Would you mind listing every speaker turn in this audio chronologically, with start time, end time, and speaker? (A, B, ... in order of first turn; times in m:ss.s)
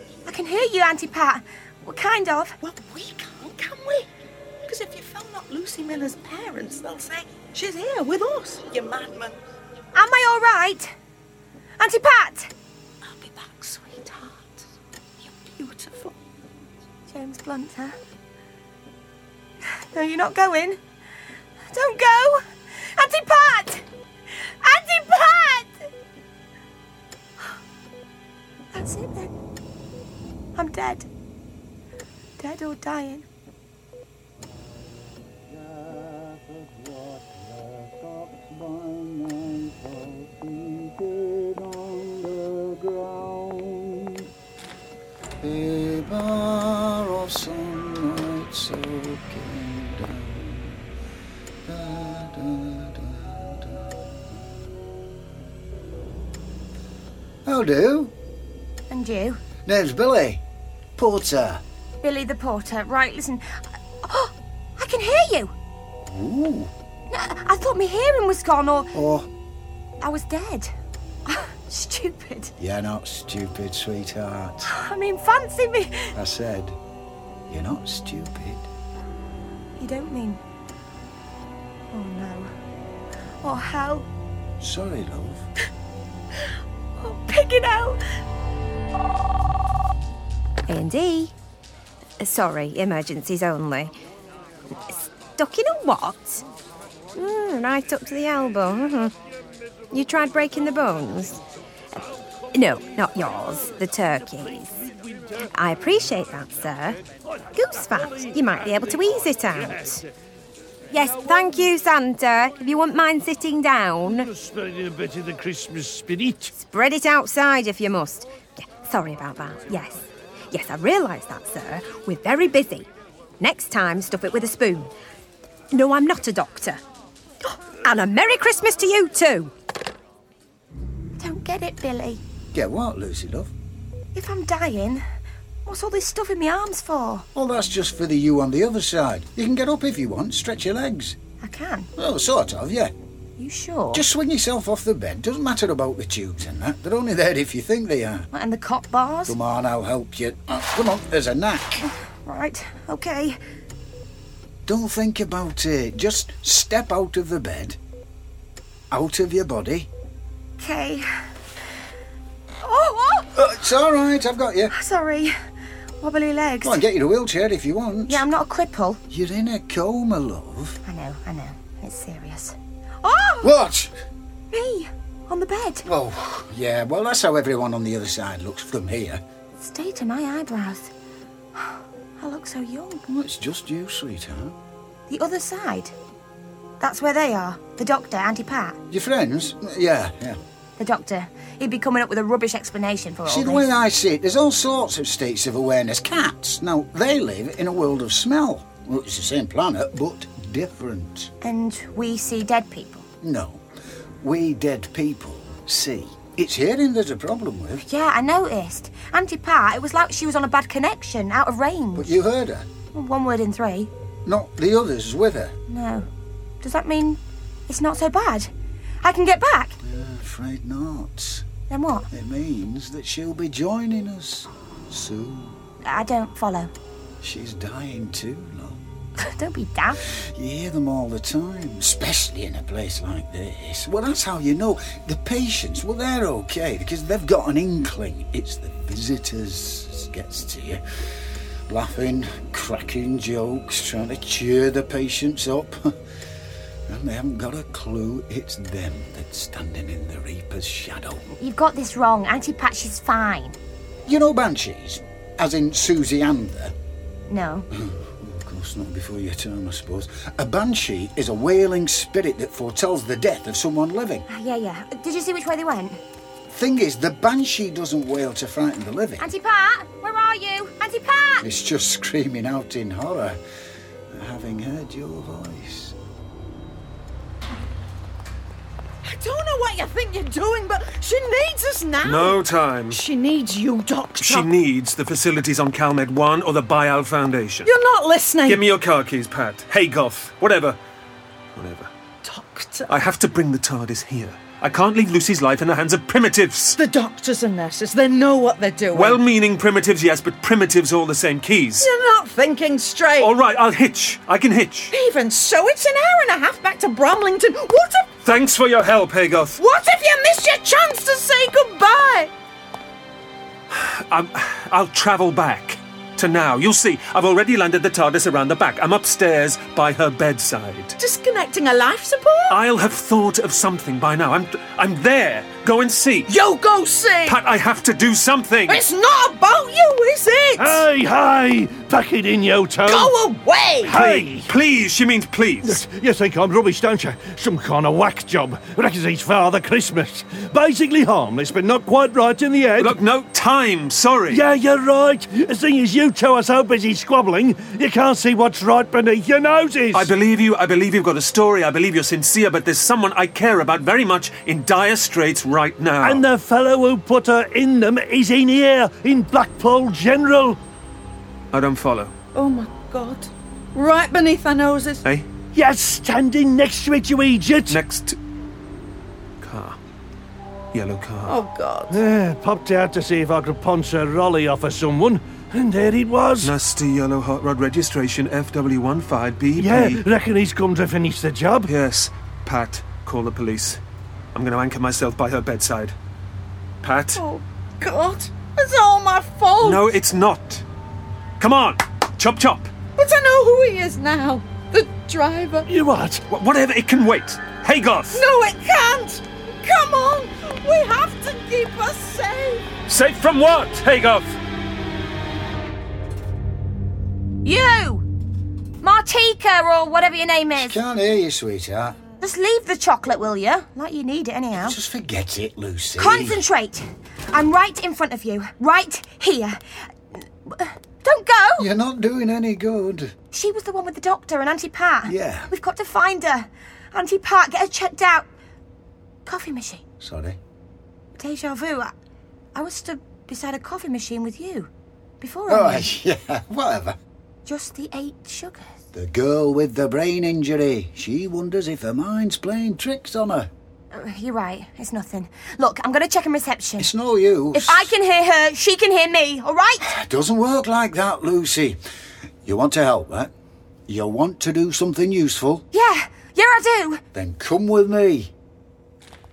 0:00.3-0:02.6 A
0:02.6-0:04.1 B
0:04.7-0:09.4 B
0:10.0-0:10.9 A
0:11.8-0:12.5 A
0:13.0-0:14.6 B
0:15.2-0:16.2 B
0:17.1-0:18.0 A
0:19.6-0:20.8 A
0:21.7-0:23.8 A
0:24.6-0:25.9 A
0:28.7-0:29.3 A
0:30.6-0:31.1 A
0:32.4-0:33.2 A
0:34.4-0:44.3 C
0:45.4-0:50.9 C
0:51.7-0:54.4 C
0:57.5-0:58.1 C
0:58.9-0:59.4 A
0:59.6-1:00.4 C
1:01.0-1:01.6 C
1:02.0-1:05.5 A
1:06.1-1:06.7 C
1:07.1-1:08.9 A
1:08.9-1:09.3 C
1:10.0-1:10.7 A
1:11.3-1:12.5 A
1:12.6-1:14.7 C
1:14.7-1:16.2 A
1:16.2-1:16.8 C
1:17.5-1:18.7 C
1:19.8-1:20.4 A
1:21.9-1:22.5 A
1:23.4-1:24.1 A
1:24.6-1:25.5 C
1:27.0-1:28.0 A
1:30.7-1:31.3 D
1:32.2-1:33.9 D
1:34.9-1:36.4 D
1:37.1-1:39.2 D
1:39.9-1:41.4 D
1:42.5-1:44.9 D
1:44.8-1:45.5 E
1:45.4-1:50.0 D
1:47.4-1:50.1 E
1:50.9-1:54.3 D
1:54.1-1:56.5 E
1:56.5-2:02.9 D
2:03.4-2:04.9 D
2:05.7-2:06.8 D
2:07.8-2:09.5 D
2:11.2-2:12.2 A
2:12.5-2:13.5 C
2:14.2-2:15.0 A
2:15.7-2:17.3 A
2:17.4-2:21.2 C
2:21.4-2:21.9 A
2:22.0-2:22.9 C
2:23.4-2:24.1 A
2:23.9-2:28.3 C
2:28.3-2:29.4 A
2:29.3-2:31.9 C
2:32.1-2:33.4 A
2:34.7-2:37.8 C
2:38.9-2:39.9 C
2:40.6-2:41.1 A
2:42.6-2:43.3 A
2:43.4-2:44.7 C
2:44.7-2:45.4 A
2:46.0-2:46.8 A
2:46.6-2:48.3 C
2:48.1-2:49.0 A
2:49.1-2:50.8 C
2:50.8-2:53.5 A
2:53.4-2:53.9 C
2:54.5-2:55.9 A
2:55.8-2:59.2 C
2:59.6-3:00.9 A
3:01.6-3:03.0 A
3:03.1-3:04.6 C
3:05.1-3:06.0 A
3:06.8-3:08.8 A
3:08.9-3:10.4 C
3:10.8-3:13.7 A
3:13.3-3:21.3 C
3:21.4-3:23.1 A
3:23.2-3:23.6 C
3:24.2-3:27.8 C
3:27.8-3:32.2 A
3:32.0-3:32.7 C
3:32.9-3:33.9 A
3:34.3-3:35.6 C
3:35.7-3:36.1 A
3:36.6-3:38.5 A
3:39.0-3:39.8 A
3:39.8-3:41.5 C
3:41.7-3:42.1 A
3:42.1-3:45.6 C
3:45.8-3:46.7 A
3:47.2-3:48.8 C
3:49.2-3:50.0 A
3:50.1-4:00.8 C
4:01.7-4:06.0 C
4:06.9-4:11.2 C
4:11.3-4:13.6 A
4:14.1-4:16.8 C
4:17.3-4:17.7 A
4:17.7-4:24.3 C
4:24.3-4:26.0 A
4:26.5-4:29.3 C
4:29.2-4:31.5 A
4:31.4-4:33.4 C
4:34.1-4:36.0 C
4:39.0-4:42.4 B
4:42.0-4:43.0 F
4:42.9-4:44.5 B
4:44.2-4:47.7 F
4:47.7-4:48.6 B
4:48.5-4:50.8 F
4:51.5-4:51.9 F
4:52.2-4:52.9 B
4:52.9-4:56.8 F
4:56.8-4:59.2 B
4:58.9-5:01.9 F
5:01.8-5:03.4 B
5:03.2-5:04.9 F
5:04.9-5:08.1 B
5:08.2-5:09.6 F
5:09.6-5:12.3 B
5:13.7-5:21.0 F
5:21.0-5:22.6 B
5:22.5-5:26.3 F
5:26.3-5:27.4 B
5:27.3-5:28.8 F
5:28.7-5:30.9 B
5:30.6-5:33.1 E
5:32.8-5:34.1 B
5:33.8-5:34.5 E
5:33.9-5:35.8 F
5:35.6-5:43.0 E
5:42.8-5:44.4 F
5:44.3-5:50.1 E
5:49.9-5:56.2 F
5:56.0-6:00.6 E
6:01.5-6:02.1 F
6:02.3-6:05.0 B
6:05.5-6:07.8 E
6:07.7-6:08.2 F
6:09.4-6:09.8 F
6:10.7-6:11.4 F
6:11.3-6:12.0 B
6:11.9-6:16.5 E
6:16.4-6:20.0 F
6:19.6-6:21.7 E
6:21.7-6:23.8 F
6:24.3-6:26.0 F
6:26.8-6:27.2 F
6:27.2-6:29.9 B
6:29.6-6:30.6 F
6:31.4-6:32.7 F
6:33.0-6:35.7 B
6:35.7-6:36.2 E
6:36.3-6:38.2 F
6:38.1-6:42.7 B
6:42.9-6:44.4 F
6:47.4-6:48.1 A
6:48.8-6:50.8 A
6:50.6-6:52.0 C
6:52.2-6:54.8 A
6:54.6-6:56.4 C
6:56.0-7:01.7 A
7:01.6-7:03.1 C
7:03.3-7:08.3 A
7:05.0-7:05.5 C
7:09.3-7:09.8 A
7:10.0-7:10.4 C
7:11.2-7:11.9 A
7:12.6-7:14.7 A
7:15.2-7:15.9 A
7:15.5-7:17.0 C
7:17.5-7:18.8 A
7:18.9-7:23.5 C
7:23.9-7:26.9 A
7:26.8-7:27.9 C
7:27.5-7:29.9 A
7:29.9-7:31.8 C
7:32.4-7:33.3 C
7:33.9-7:35.7 C
7:35.7-7:37.0 A
7:37.1-7:38.3 C